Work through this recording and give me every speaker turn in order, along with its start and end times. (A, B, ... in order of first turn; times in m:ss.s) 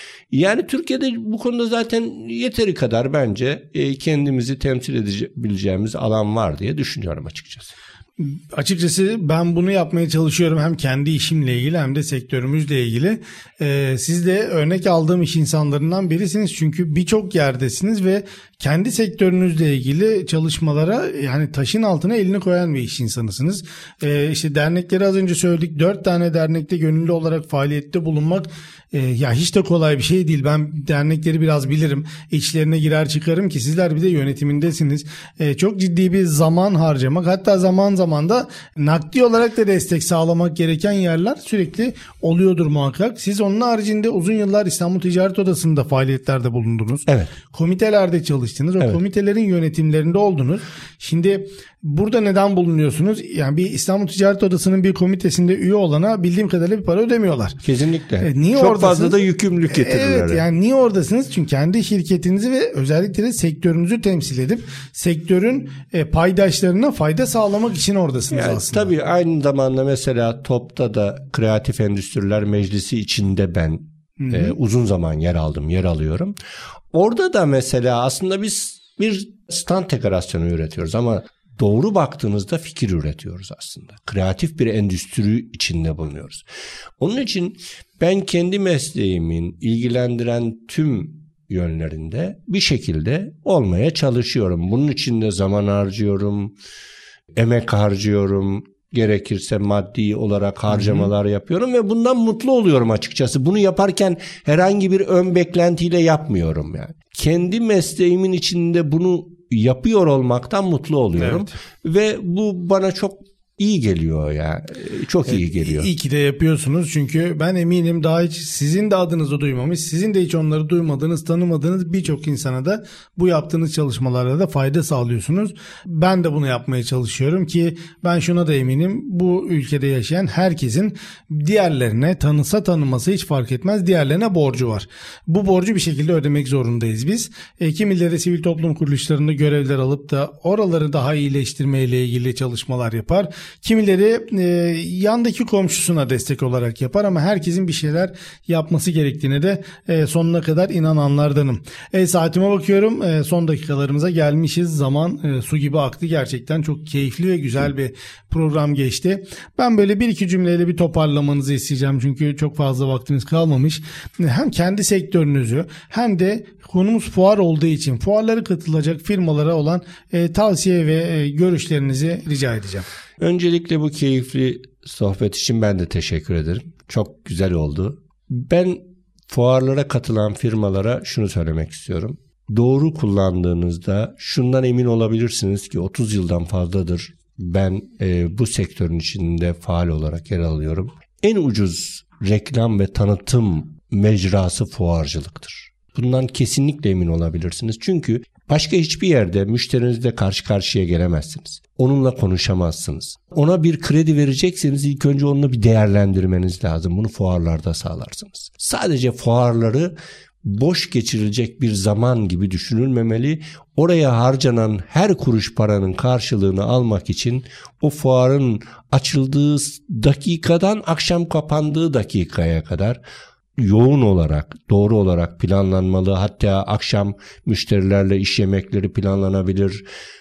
0:00.3-0:07.7 A
0:08.2-0:57.6 B
0:47.1-0:47.3 A
0:57.6-1:00.4 A
0:58.2-0:59.2 B
0:59.7-1:08.9 B
1:08.3-1:16.4 A
1:14.2-1:14.6 B
1:16.9-1:26.4 A
1:27.0-1:36.5 A
1:37.4-1:55.9 A
1:40.7-1:41.1 B
1:51.2-1:51.5 B
1:55.3-2:52.9 B
2:53.2-3:43.0 A
3:43.6-3:49.8 A